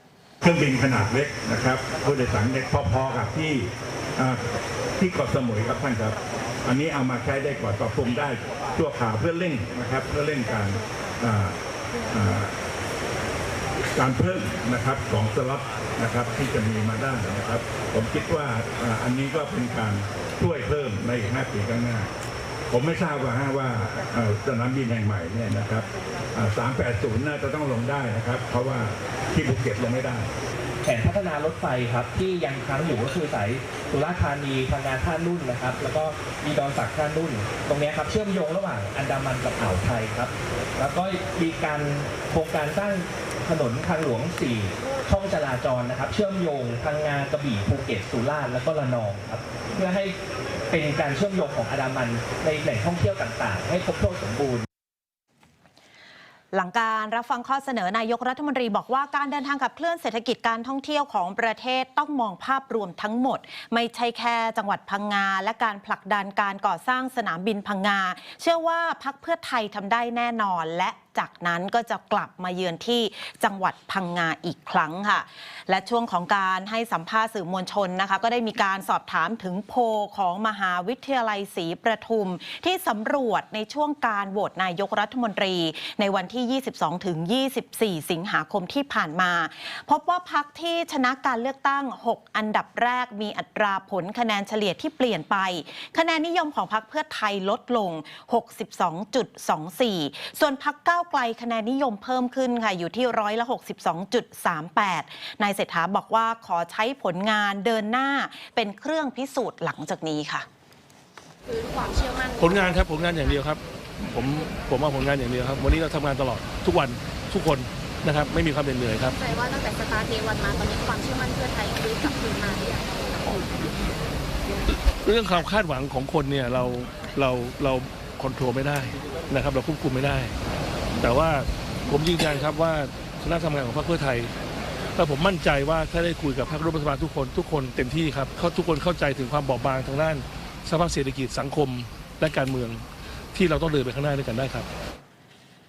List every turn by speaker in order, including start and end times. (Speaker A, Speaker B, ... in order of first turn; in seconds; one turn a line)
Speaker A: 0.4-4.4
Speaker A: 5.0-11.6
Speaker A: 12.1-12.5
Speaker A: 14.0-22.1
Speaker A: 22.7-30.3
Speaker B: 30.8-50.1
Speaker B: 50.7-54.7
Speaker C: 56.5-110.5
Speaker D: 111.5-113.3
Speaker E: 112.4-119.2
Speaker D: 119.2-123.3
Speaker E: 124.7-130.3
Speaker E: 131.0-134.3
Speaker E: 135.0-144.7